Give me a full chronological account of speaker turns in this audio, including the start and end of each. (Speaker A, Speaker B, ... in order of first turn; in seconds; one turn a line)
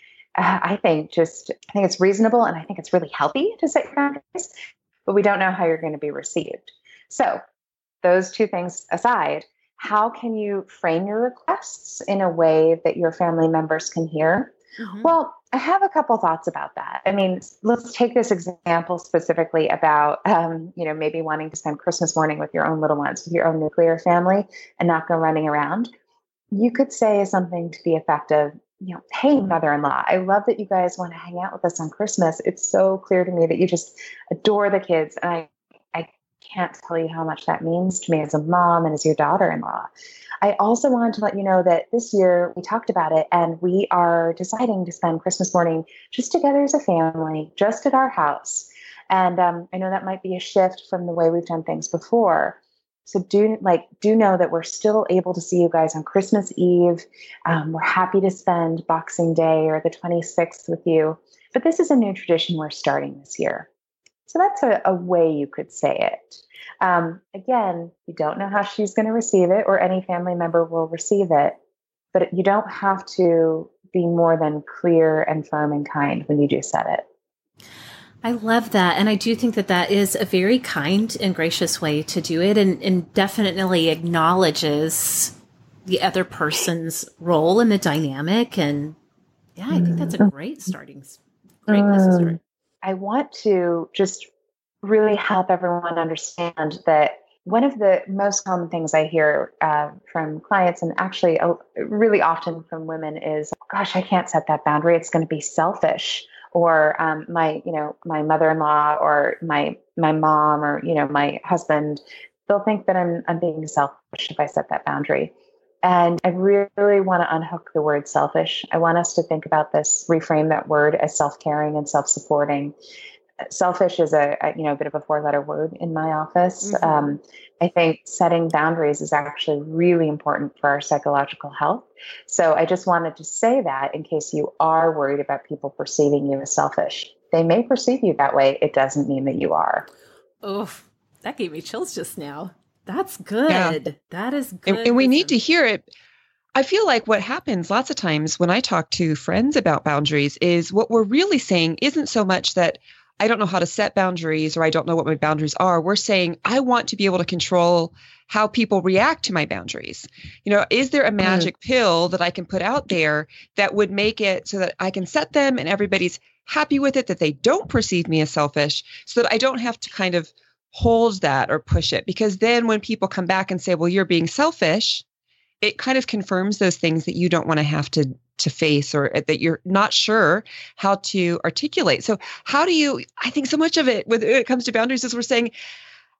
Speaker A: 0.4-4.5
Speaker A: 5.0-7.4
Speaker A: 8.0-25.9
Speaker B: 14.8-15.1
Speaker A: 26.5-39.9
Speaker A: 40.4-63.7
Speaker A: 64.3-71.6
Speaker A: 72.1-77.0
Speaker B: 78.2-85.3
Speaker B: 85.8-89.0
Speaker B: 89.6-92.4
Speaker A: 89.7-90.3
Speaker A: 91.7-94.3
Speaker A: 94.8-115.3
Speaker A: 115.8-122.7
Speaker A: 123.5-139.9
Speaker B: 126.6-127.2
Speaker B: 140.4-145.4
Speaker C: 143.5-143.8
Speaker C: 144.7-145.9
Speaker C: 146.5-175.0
Speaker A: 161.2-161.5
Speaker C: 175.6-185.5